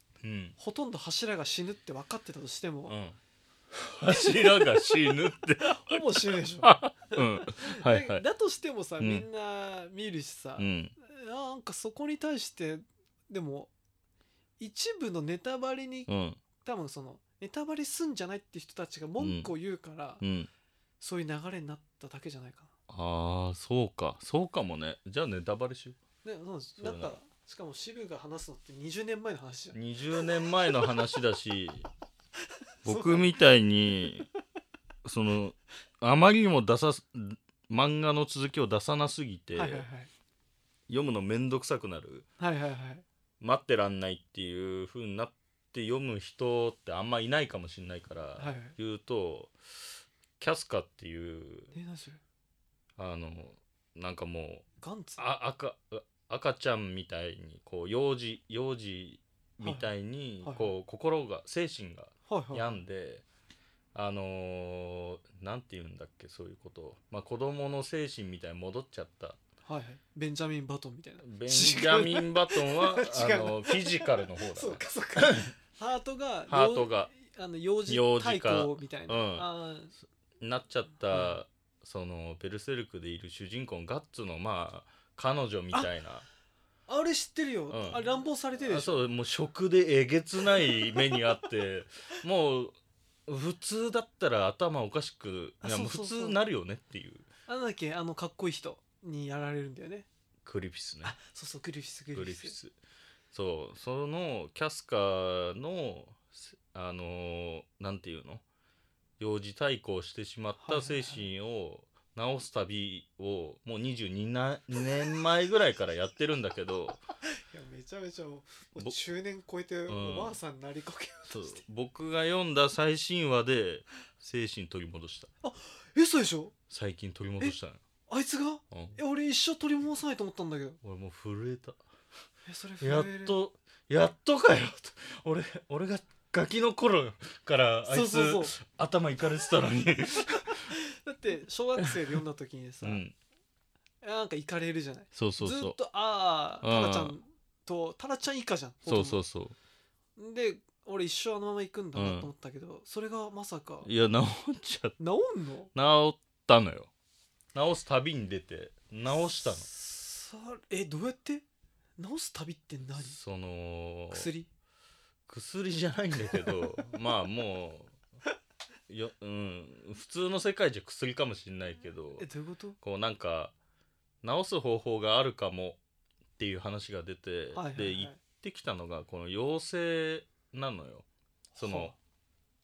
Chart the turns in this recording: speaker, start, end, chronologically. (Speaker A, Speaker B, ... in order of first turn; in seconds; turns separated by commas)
Speaker A: 0.2-0.6, Speaker B: 0.6-3.0, Speaker A: 2.9-3.2, Speaker A: 3.7-8.2, Speaker B: 4.1-5.0, Speaker B: 5.6-13.7, Speaker A: 9.0-9.2, Speaker A: 10.6-10.9, Speaker B: 14.6-16.1, Speaker A: 16.1-16.4, Speaker B: 16.6-20.2, Speaker A: 19.2-19.5, Speaker A: 20.2-20.5, Speaker B: 21.0-22.7, Speaker A: 22.9-26.0, Speaker B: 26.2-29.8, Speaker A: 26.8-27.1, Speaker A: 29.7-31.9, Speaker B: 32.8-33.4, Speaker A: 32.8-34.3, Speaker A: 35.0-39.9, Speaker B: 39.5-40.1, Speaker A: 40.9-42.2, Speaker B: 42.4-43.0, Speaker A: 43.4-49.5, Speaker B: 48.4-48.7, Speaker A: 50.4-51.7, Speaker B: 51.7-52.2, Speaker A: 53.0-54.6, Speaker B: 54.8-55.2, Speaker A: 55.2-63.2, Speaker B: 59.6-59.9, Speaker B: 60.4-60.7, Speaker B: 62.3-62.8, Speaker A: 63.9-69.4, Speaker B: 69.6-79.9, Speaker A: 71.2-75.5, Speaker A: 76.5-77.1, Speaker A: 77.9-79.5, Speaker A: 80.4-86.2, Speaker B: 86.9-89.0, Speaker A: 87.7-88.0, Speaker A: 88.6-97.3, Speaker B: 90.6-90.9, Speaker B: 95.6-96.4, Speaker B: 97.5-100.1, Speaker A: 100.4-101.1, Speaker B: 101.0-102.5, Speaker A: 102.1-102.7, Speaker A: 103.3-108.4, Speaker A: 109.2-117.0, Speaker B: 110.6-111.3, Speaker B: 117.4-121.6, Speaker A: 119.9-120.4, Speaker A: 121.3-125.3, Speaker B: 125.4-126.5, Speaker A: 126.7-127.8, Speaker B: 128.1-130.8, Speaker A: 128.7-129.0, Speaker A: 130.8-131.8, Speaker B: 132.4-133.4, Speaker A: 132.8-140.7, Speaker B: 137.9-138.5, Speaker B: 140.6-143.0, Speaker A: 142.8-143.1, Speaker B: 144.0-149.2, Speaker A: 145.1-145.8, Speaker A: 146.6-147.2, Speaker A: 148.8-149.6, Speaker B: 150.2-153.9, Speaker A: 151.9-152.3, Speaker A: 153.8-155.0, Speaker B: 155.0-155.7, Speaker A: 155.7-156.9, Speaker A: 157.5-159.7, Speaker B: 159.4-161.4, Speaker B: 162.0-163.2, Speaker A: 162.9-164.3, Speaker B: 164.1-164.5, Speaker A: 165.3-168.0, Speaker A: 168.9-172.3, Speaker B: 172.2-172.8, Speaker A: 172.8-173.5, Speaker A: 174.2-175.8, Speaker A: 176.4-181.1, Speaker B: 177.5-178.2, Speaker B: 181.5-181.9, Speaker A: 181.6-181.9